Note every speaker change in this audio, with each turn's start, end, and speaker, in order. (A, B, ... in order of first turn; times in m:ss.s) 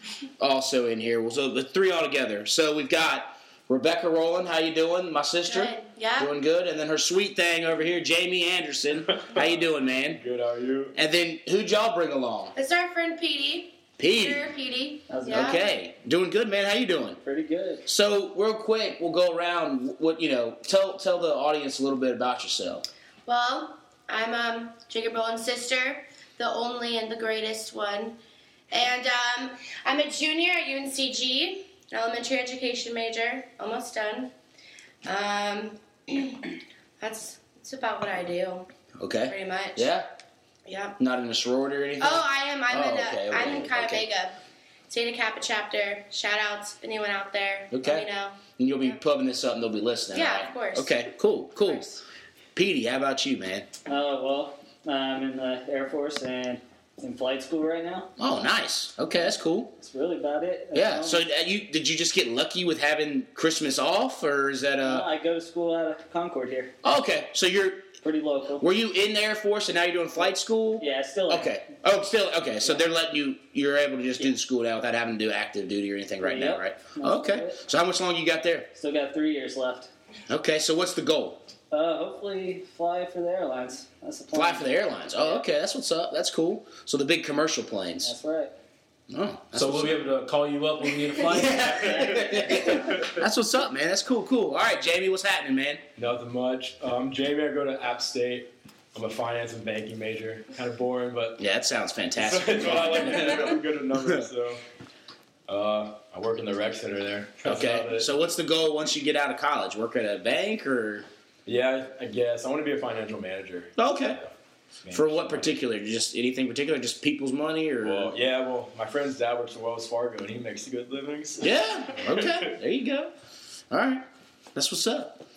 0:00.4-0:10.2 A
0:05.5-0:06.3 B
0:09.1-0:10.9 C
0:10.9-0:12.5 A
0:12.5-0:15.6 B
0:14.0-0:14.5 A
0:15.1-0:15.6 D
0:15.2-0:17.2 A
0:17.2-0:17.8 D
0:17.8-0:22.8 A
0:23.2-0:28.2 B
0:28.7-0:34.3 B
0:35.0-0:36.4 B
0:37.0-0:38.7 B
0:39.0-0:40.0 A
0:39.3-0:39.9 B
0:40.6-0:41.0 B
0:41.0-0:44.0 A
0:42.0-0:44.4 B
0:44.9-0:49.0 B
0:47.7-0:51.8 A
0:50.1-0:50.9 B
0:51.6-0:52.0 B
0:52.5-0:53.7 A
0:53.9-0:58.1 D
0:58.2-0:59.8 A
0:59.8-1:01.2 D
1:00.7-1:05.1 A
1:04.8-1:06.7 D
1:06.8-1:07.9 A
1:08.0-1:08.7 D
1:08.6-1:18.7 A
1:10.8-1:11.6 D
1:16.2-1:17.6 D
1:18.7-1:19.9 D
1:20.3-1:21.4 A
1:21.7-1:25.4 D
1:24.3-1:28.1 A
1:28.0-1:28.5 D
1:29.1-1:30.0 A
1:29.5-1:32.2 E
1:31.2-1:35.8 A
1:31.6-1:32.9 D
1:31.9-1:33.2 C
1:36.0-1:41.4 C
1:41.4-1:44.3 A
1:42.2-1:44.6 C
1:45.5-1:48.1 C
1:47.4-1:51.1 A
1:51.4-1:54.3 C
1:53.8-1:54.2 A
1:54.8-1:55.5 C
1:54.9-1:58.1 A
1:57.8-2:01.5 C
2:01.4-2:03.1 A
2:02.0-2:02.4 C
2:03.7-2:05.2 A